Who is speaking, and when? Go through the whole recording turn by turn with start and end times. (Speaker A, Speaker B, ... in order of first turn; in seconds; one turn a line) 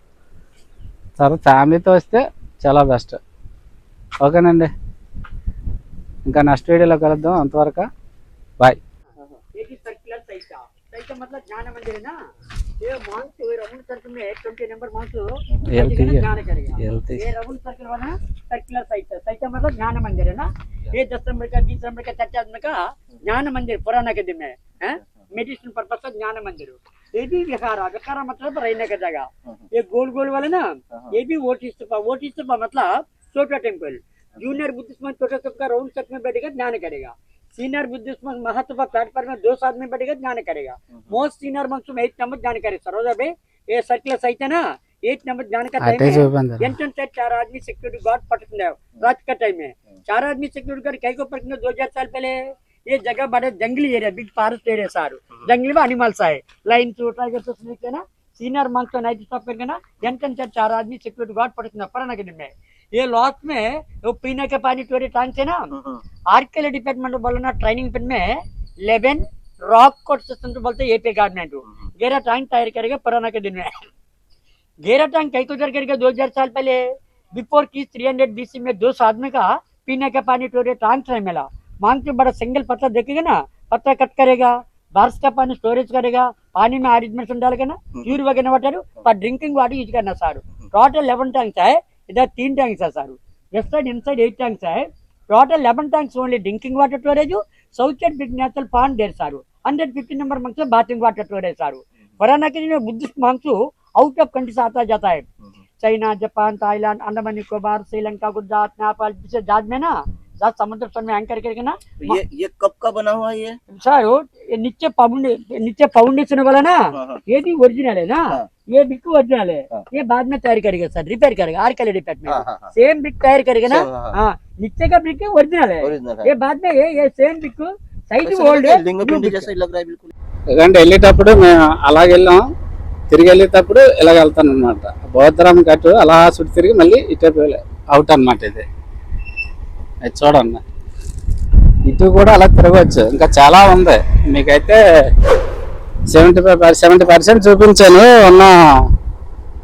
Speaker A: 1.2-3.2
Speaker A: 4.2-4.7
Speaker A: 6.3-7.9
Speaker B: 9.6-12.2
Speaker B: 12.8-65.7
Speaker A: 15.7-16.3
Speaker A: 16.8-17.2
Speaker A: 45.8-46.8
Speaker B: 66.3-68.4
Speaker B: 68.9-73.8
Speaker B: 74.8-76.8
Speaker B: 77.3-105.2
Speaker B: 105.8-112.2
Speaker C: 112.0-113.6
Speaker B: 113.8-129.5
Speaker C: 117.0-117.2
Speaker C: 122.3-122.7
Speaker C: 123.7-124.2
Speaker C: 125.8-126.3
Speaker C: 128.2-130.1
Speaker A: 130.6-132.4
Speaker A: 133.1-138.7
Speaker A: 140.0-140.6
Speaker A: 141.9-144.8
Speaker A: 146.1-148.9